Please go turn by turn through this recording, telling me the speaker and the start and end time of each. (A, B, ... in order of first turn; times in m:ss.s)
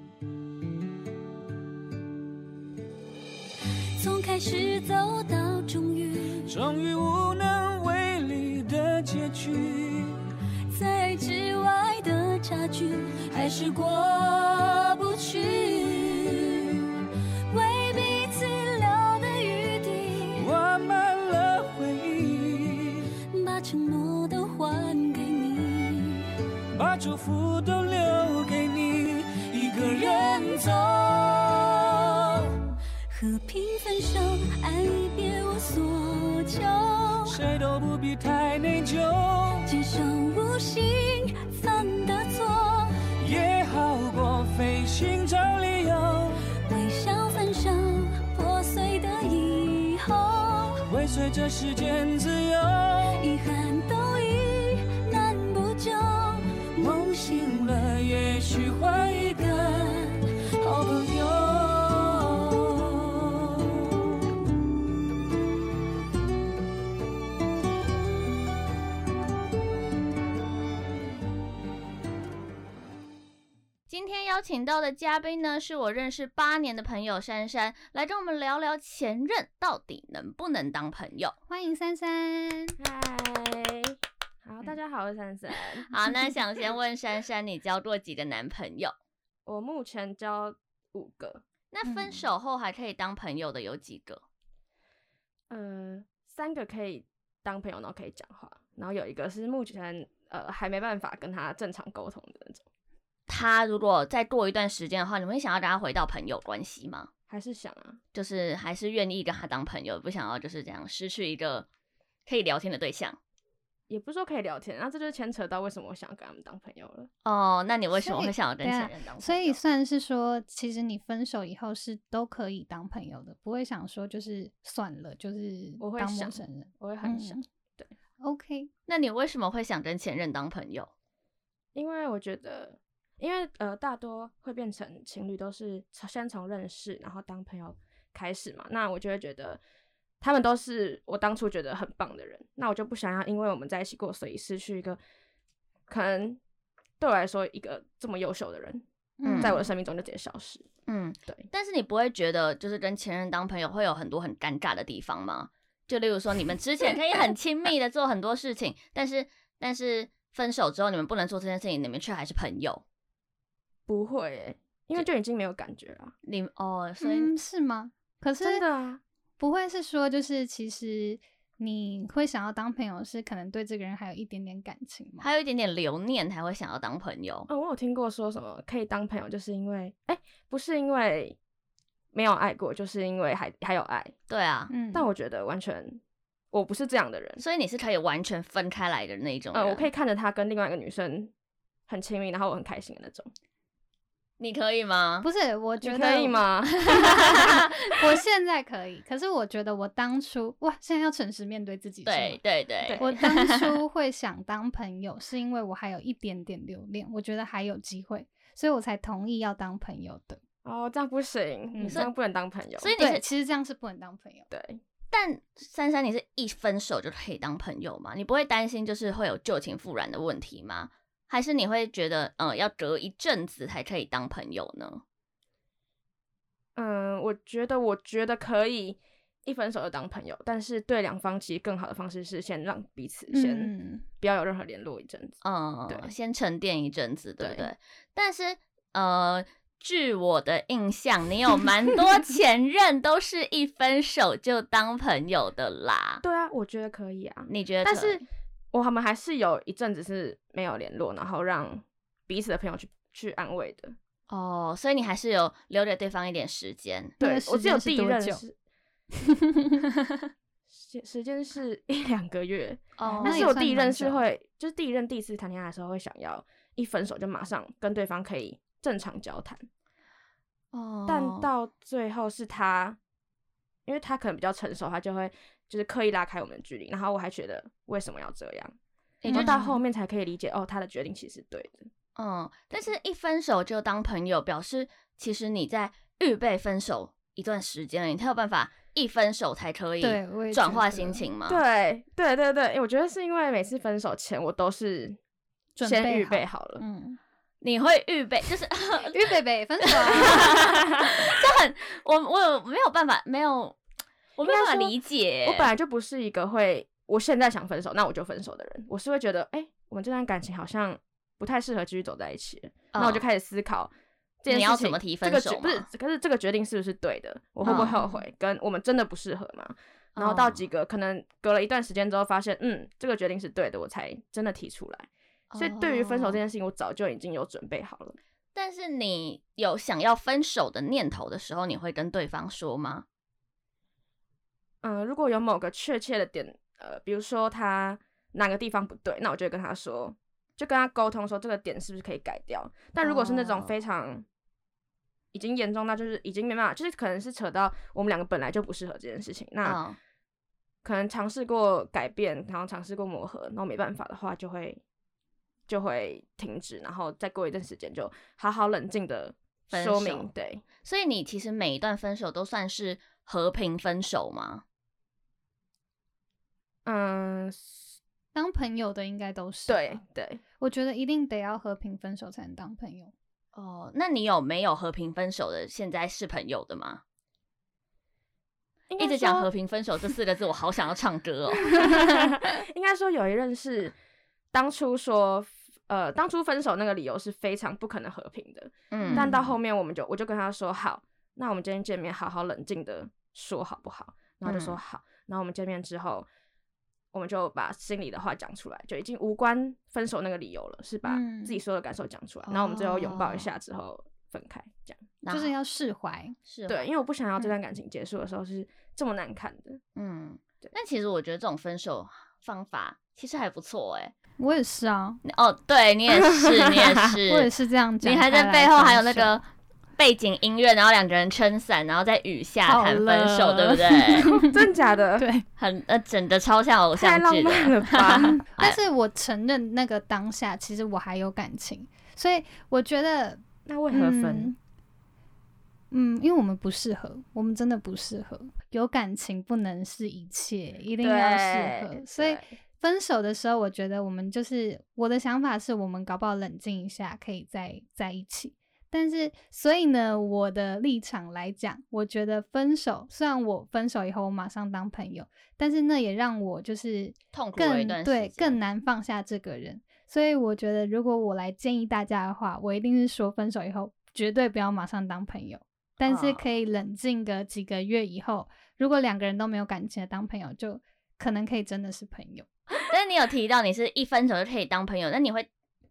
0:04.0-0:06.6 A
0:06.5-0:10.2 B
0:10.7-0:16.6 A
0:13.3-0:14.0 B
0:17.5-0:20.5 A
0:20.3-0:23.1 B
0:23.3-0:26.3 A
0:26.7-0:31.6 B
0:29.7-0:30.8 A
0:33.1-0:37.4 A
0:37.2-0:39.7 B
0:39.6-0:43.0 A
0:43.2-0:46.4 B
0:46.6-0:50.8 A
0:50.8-0:53.3 B
0:53.2-0:57.7 A
0:56.8-0:59.9 B
0:59.3-1:00.1 A
1:00.6-1:02.4 B
1:13.9-1:21.3 C
1:21.5-1:22.8 D
1:22.8-1:25.9 E
1:25.9-1:28.9 C
1:29.4-1:31.4 E
1:31.7-1:34.2 C
1:31.8-1:32.2 D
1:35.5-1:42.6 E
1:43.3-1:47.1 C
1:47.3-1:48.0 E
1:48.1-1:51.7 C
1:52.2-1:53.2 C
1:53.9-1:57.1 E
1:57.2-1:59.6 C
1:58.0-2:07.4 D
2:05.8-2:07.9 E
2:08.2-2:08.7 D
2:08.9-2:10.9 C
2:11.7-2:19.6 E
2:20.2-2:25.0 E
2:25.9-2:26.4 E
2:27.0-2:28.8 E
2:29.2-2:29.6 D
2:29.2-2:29.6 C
2:29.4-2:30.7 E
2:30.9-2:42.8 C
2:43.9-2:46.1 E
2:46.2-2:47.3 C
2:47.0-2:48.6 D
2:48.4-2:49.0 E
2:49.4-2:55.2 D
2:55.2-2:57.5 C
2:57.5-3:01.4 E
3:02.1-3:04.1 E
3:04.3-3:04.7 C
3:04.7-3:05.1 D
3:04.9-3:06.0 E
3:06.5-3:07.4 E
3:07.4-3:09.9 C
3:09.5-3:11.3 E
3:11.9-3:13.3 E
3:14.4-3:15.3 C
3:15.2-3:16.4 D
3:15.8-3:17.9 E
3:16.8-3:18.0 C
3:17.9-3:22.4 D
3:22.0-3:23.8 C
3:22.8-3:23.2 E
3:23.0-3:30.4 D
3:30.6-3:32.9 E
3:31.7-3:32.0 D
3:32.8-3:33.2 C
3:33.0-3:34.5 D
3:34.5-3:34.8 E
3:35.1-3:45.0 C
3:46.8-3:55.4 E
3:53.3-3:54.0 D
3:55.4-4:06.2 C
3:57.4-3:57.7 E
4:06.2-4:13.9 E
4:07.5-4:08.2 C
4:14.3-4:17.2 C
4:17.2-4:18.6 E
4:17.2-4:18.4 D
4:19.2-4:19.8 D
4:20.7-4:29.7 E
4:23.0-4:23.5 C
4:23.2-4:24.2 D
4:30.7-4:31.5 C
4:31.0-4:33.0 E
4:33.8-4:38.7 E
4:39.2-4:39.8 C
4:39.3-4:41.9 E
4:39.3-4:39.6 D
4:42.2-4:51.6 C
4:50.0-4:51.2 D
4:51.5-4:55.2 E
4:55.8-4:57.2 D
4:55.8-4:56.8 E
4:57.6-5:03.8 C
4:59.1-5:00.8 D
5:04.4-5:05.7 C
5:04.4-5:04.9 E
5:05.4-5:13.9 E
5:12.9-5:13.2 C
5:14.4-5:28.2 E
5:14.5-5:15.9 C
5:17.6-5:18.0 C
5:20.2-5:20.6 C
5:25.5-5:26.4 C
5:28.5-5:33.0 C
5:34.8-5:44.2 E
5:43.0-5:43.7 C
5:45.3-5:49.8 E
5:49.6-5:50.0 C
5:50.8-5:54.8 E
5:55.7-6:00.6 E
5:59.7-6:00.3 C
6:00.8-6:04.6 C
6:06.8-6:08.0 E
6:08.3-6:10.0 D
6:09.7-6:10.4 E
6:10.6-6:13.1 D
6:13.5-6:17.0 C
6:18.9-6:19.5 E
6:19.0-6:22.3 C
6:21.6-6:24.0 E
6:24.5-6:36.3 E
6:28.9-6:29.4 C
6:34.4-6:34.8 C
6:37.1-6:45.0 E
6:41.0-6:41.6 D
6:42.4-6:43.5 C
6:45.2-6:45.5 C
6:45.3-6:46.4 D
6:46.4-6:46.9 C
6:46.7-6:49.8 E
6:50.0-6:54.1 C
6:54.4-6:55.2 D
6:55.2-6:57.5 C
6:56.3-6:56.9 E
6:57.3-6:59.4 D
6:58.0-6:59.4 C
7:00.0-7:04.4 C
7:02.6-7:04.5 D
7:04.4-7:05.2 E
7:05.2-7:05.4 D
7:05.6-7:08.8 C
7:06.9-7:08.4 E
7:08.2-7:14.6 D
7:13.6-7:14.5 E
7:15.9-7:52.5 D
7:21.0-7:22.5 E
7:37.3-7:38.6 C
7:46.0-7:46.4 C
7:52.8-7:55.5 C